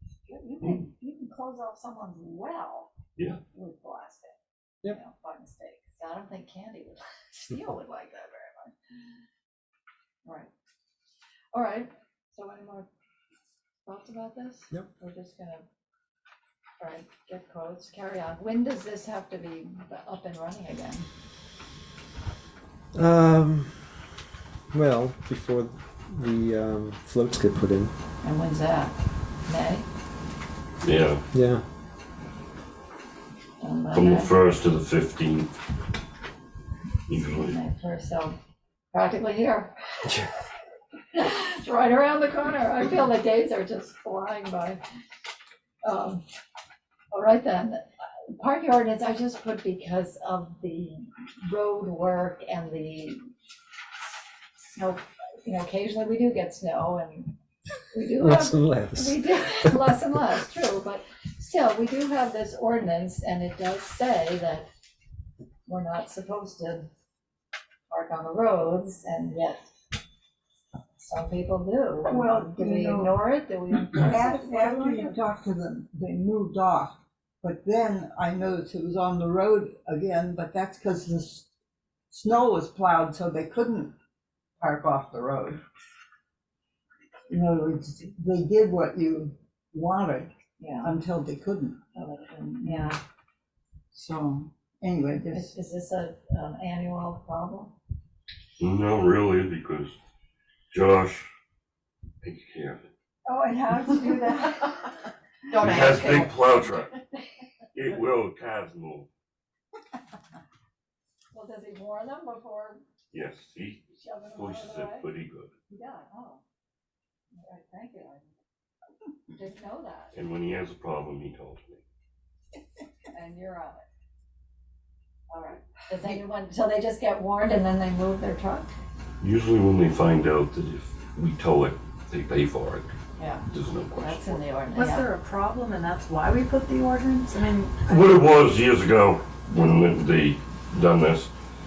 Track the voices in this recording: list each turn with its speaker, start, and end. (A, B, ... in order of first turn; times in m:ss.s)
0:00.3-0:02.9 A
0:03.2-0:03.4 B
0:03.5-0:08.8 A
0:10.2-0:10.5 A
0:11.5-0:12.9 A
0:13.8-0:15.7 A
0:16.8-0:21.1 A
0:23.0-0:23.8 C
0:24.7-0:27.9 C
0:28.2-0:29.9 A
0:30.8-0:31.2 B
0:31.3-0:31.6 C
0:33.6-0:34.3 A
0:33.9-0:35.5 B
0:37.1-0:37.6 B
0:37.2-0:38.4 A
0:38.9-0:39.8 A
0:41.1-0:44.8 A
0:45.8-0:46.2 A
0:47.1-0:53.3 A
0:54.7-0:57.4 A
0:57.9-1:04.7 A
0:58.2-0:59.7 C
1:05.7-1:06.9 A
1:07.9-1:09.7 A
1:11.0-1:15.2 A
1:12.1-1:13.2 D
1:13.9-1:21.5 D
1:22.1-1:23.9 D
1:24.6-1:25.6 D
1:27.3-1:30.3 D
1:30.6-1:31.0 A
1:30.8-1:31.8 D
1:31.9-1:33.0 A
1:33.9-1:35.5 D
1:35.3-1:37.8 A
1:38.6-1:40.0 B
1:40.7-1:41.3 B
1:42.2-1:42.9 B
1:43.3-1:45.1 A
1:45.5-1:46.4 E
1:45.5-1:47.0 B
1:47.7-1:49.1 B
1:51.3-1:52.8 A
1:53.1-1:55.5 B
1:53.9-1:55.1 A
1:55.7-1:56.4 A
1:57.3-1:58.4 A
1:59.3-2:00.2 A
2:00.1-2:01.8 B
2:03.1-2:03.8 A
2:05.3-2:08.7 A
2:09.2-2:12.9 B
2:13.2-2:15.1 A
2:13.5-2:14.4 B
2:14.7-2:18.2 E
2:17.9-2:21.3 B